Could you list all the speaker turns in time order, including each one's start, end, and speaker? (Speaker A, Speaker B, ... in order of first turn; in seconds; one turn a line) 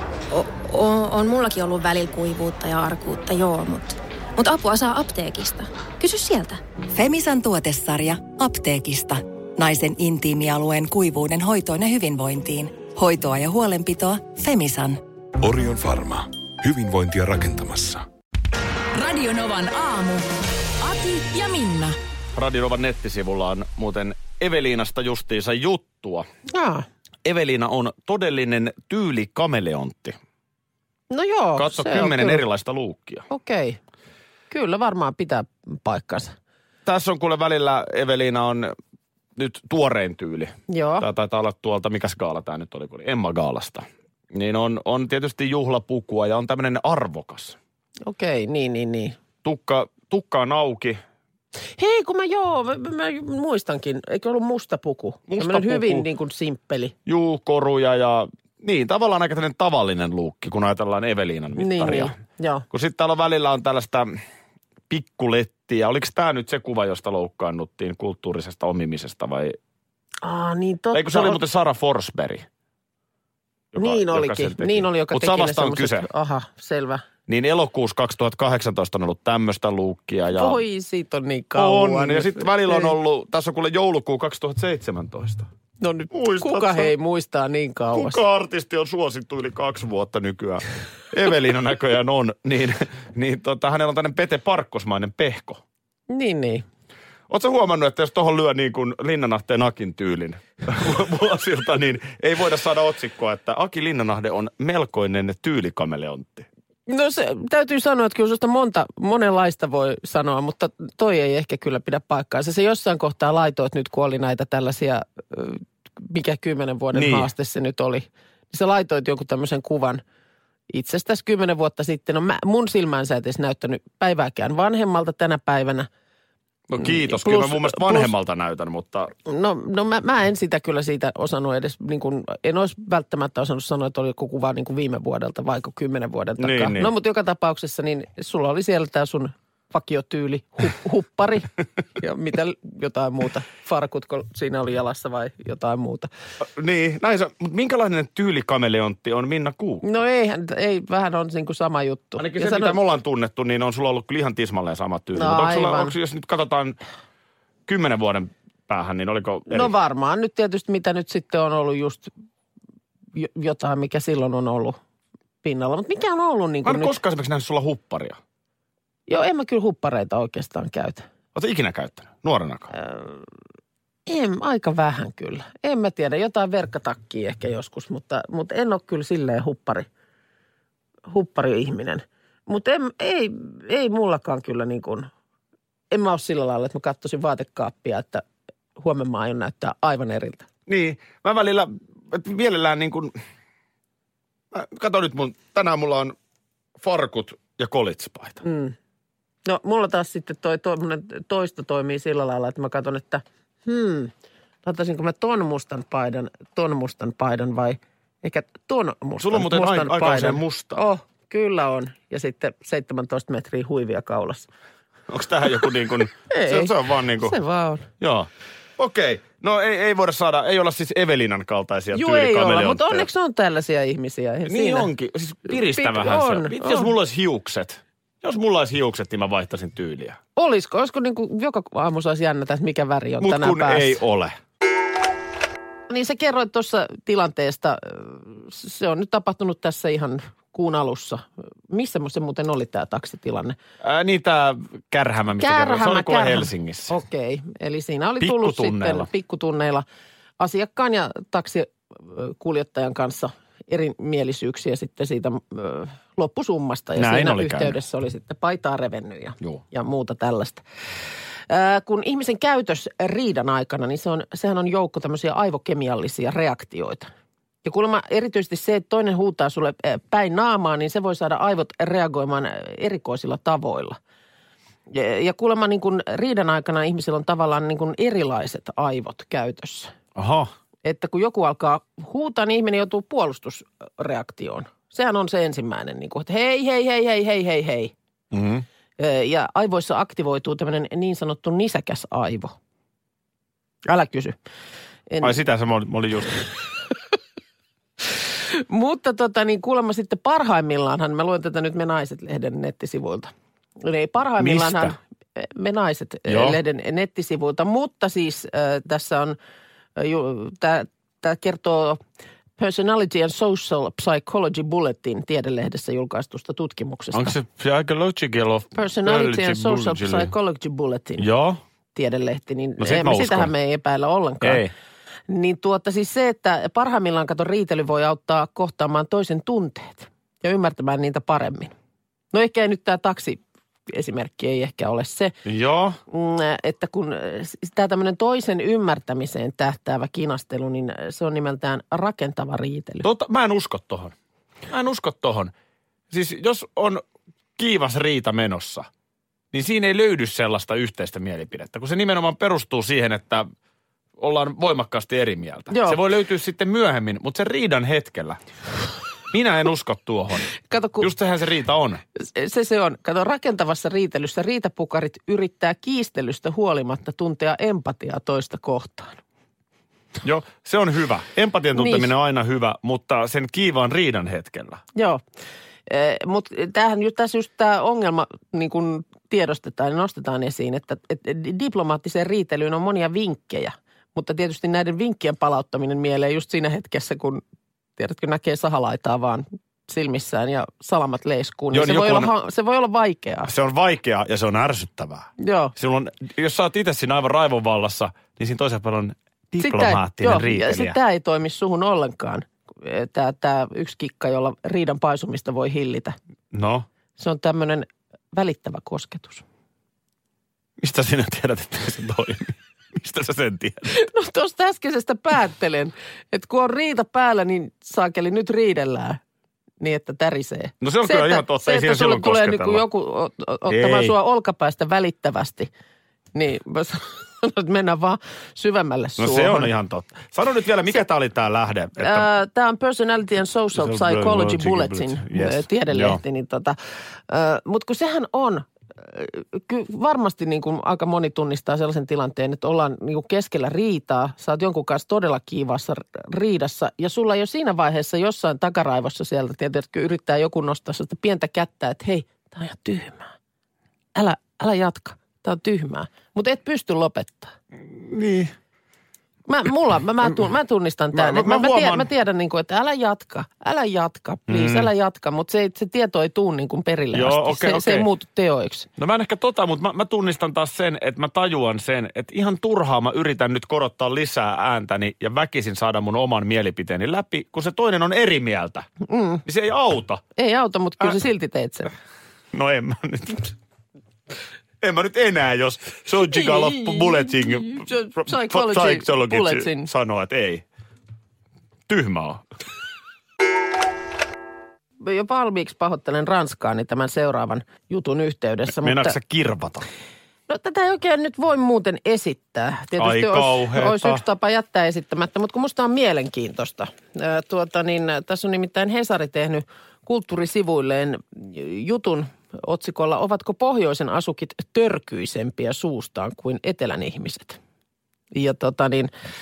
Speaker A: 0.3-6.6
Speaker B: 6.9-15.0
Speaker C: 15.4-18.0
Speaker D: 18.9-20.3
Speaker D: 20.8-21.9
Speaker E: 22.3-26.3
Speaker F: 26.5-26.9
Speaker E: 27.2-30.2
Speaker F: 31.1-32.4
Speaker E: 31.6-33.2
Speaker F: 33.3-33.8
Speaker F: 34.5-36.3
Speaker E: 36.8-38.7
Speaker E: 39.4-47.6
Speaker F: 40.7-41.0
Speaker F: 48.0-49.2
Speaker E: 49.4-51.0
Speaker F: 51.8-56.9
Speaker E: 55.3-56.1
Speaker E: 57.0-62.1
Speaker F: 61.6-62.6
Speaker E: 62.7-64.1
Speaker E: 64.9-69.6
Speaker F: 70.2-71.4
Speaker E: 70.9-72.5
Speaker E: 73.7-76.1
Speaker F: 73.8-77.0
Speaker E: 77.3-80.6
Speaker F: 80.3-82.9
Speaker E: 81.5-85.5
Speaker F: 85.8-88.2
Speaker E: 86.1-86.9
Speaker E: 87.9-95.6
Speaker F: 96.1-96.7
Speaker E: 97.3-106.5
Speaker F: 106.9-120.0
Speaker E: 116.9-117.3
Speaker F: 120.7-125.9
Speaker E: 126.7-129.1
Speaker F: 126.8-128.1
Speaker F: 129.2-146.1
Speaker E: 136.4-136.9
Speaker E: 146.4-149.8
Speaker F: 149.8-152.8
Speaker E: 152.2-156.8
Speaker F: 155.1-155.9
Speaker E: 157.7-159.7
Speaker F: 159.5-162.1
Speaker F: 163.1-164.8
Speaker F: 165.4-167.0
Speaker E: 166.6-168.2
Speaker F: 169.1-171.1
Speaker E: 171.3-172.7
Speaker F: 172.7-173.2
Speaker F: 174.1-179.9
Speaker F: 181.1-185.1
Speaker F: 185.9-188.2
Speaker F: 188.8-190.4
Speaker E: 190.7-193.2
Speaker E: 194.5-196.1
Speaker E: 196.8-198.4
Speaker F: 198.4-198.7
Speaker F: 199.4-204.1
Speaker F: 204.6-214.5
Speaker E: 209.2-210.8
Speaker E: 215.1-217.4
Speaker F: 216.3-217.9
Speaker E: 218.0-223.1
Speaker F: 221.9-224.9
Speaker E: 224.4-230.2
Speaker F: 225.5-226.9
Speaker F: 230.3-234.0
Speaker E: 233.2-234.3
Speaker F: 235.9-243.6
Speaker E: 243.8-246.9
Speaker F: 245.4-249.8
Speaker E: 248.2-249.1
Speaker F: 250.4-260.6
Speaker E: 256.9-257.8
Speaker F: 261.5-267.1
Speaker F: 267.6-274.0
Speaker F: 274.9-279.9
Speaker E: 280.1-280.5
Speaker F: 280.8-287.9
Speaker E: 288.3-288.6
Speaker F: 289.0-292.5
Speaker F: 293.9-294.4
Speaker F: 295.1-295.4
Speaker E: 295.2-296.4
Speaker F: 298.5-309.4
Speaker E: 304.4-304.9
Speaker E: 306.3-306.6
Speaker F: 309.9-312.0
Speaker F: 312.6-317.3
Speaker E: 317.1-320.3
Speaker F: 318.8-321.3
Speaker E: 321.2-321.6
Speaker F: 321.9-324.6
Speaker E: 322.8-323.5
Speaker E: 324.4-324.7
Speaker F: 325.3-331.7
Speaker F: 332.3-335.4
Speaker E: 335.4-336.0
Speaker F: 336.1-343.1
Speaker E: 343.0-344.1
Speaker E: 344.7-345.5
Speaker E: 346.1-347.0
Speaker E: 347.6-348.9
Speaker E: 349.5-353.5
Speaker E: 354.2-358.4
Speaker F: 355.7-356.0
Speaker E: 359.3-362.0
Speaker F: 360.7-361.1
Speaker F: 362.1-369.2
Speaker E: 370.2-374.8
Speaker F: 371.7-372.1
Speaker F: 374.9-375.2
Speaker F: 375.9-387.4
Speaker F: 388.0-393.5
Speaker E: 391.7-392.3
Speaker E: 393.4-401.0
Speaker F: 395.4-395.7
Speaker F: 399.6-406.2
Speaker E: 406.5-406.9
Speaker F: 407.2-409.4
Speaker E: 410.8-413.9
Speaker F: 413.9-419.2
Speaker F: 419.8-425.7
Speaker E: 420.8-422.8
Speaker E: 423.7-424.1
Speaker F: 426.3-429.7
Speaker E: 429.2-432.3
Speaker F: 432.0-436.8
Speaker E: 433.7-436.2
Speaker F: 437.3-453.3
Speaker F: 454.1-457.5
Speaker E: 457.8-458.5
Speaker F: 459.5-468.9
Speaker E: 461.1-462.1
Speaker E: 464.5-464.9
Speaker E: 467.1-468.1
Speaker E: 469.0-478.9
Speaker F: 479.0-479.4
Speaker E: 479.4-480.2
Speaker F: 480.3-481.9
Speaker E: 482.5-483.5
Speaker E: 484.8-490.6
Speaker F: 486.3-489.9
Speaker E: 491.9-492.4
Speaker F: 495.0-499.2
Speaker E: 498.7-499.9
Speaker F: 500.5-517.6
Speaker E: 503.0-504.2
Speaker F: 518.3-519.1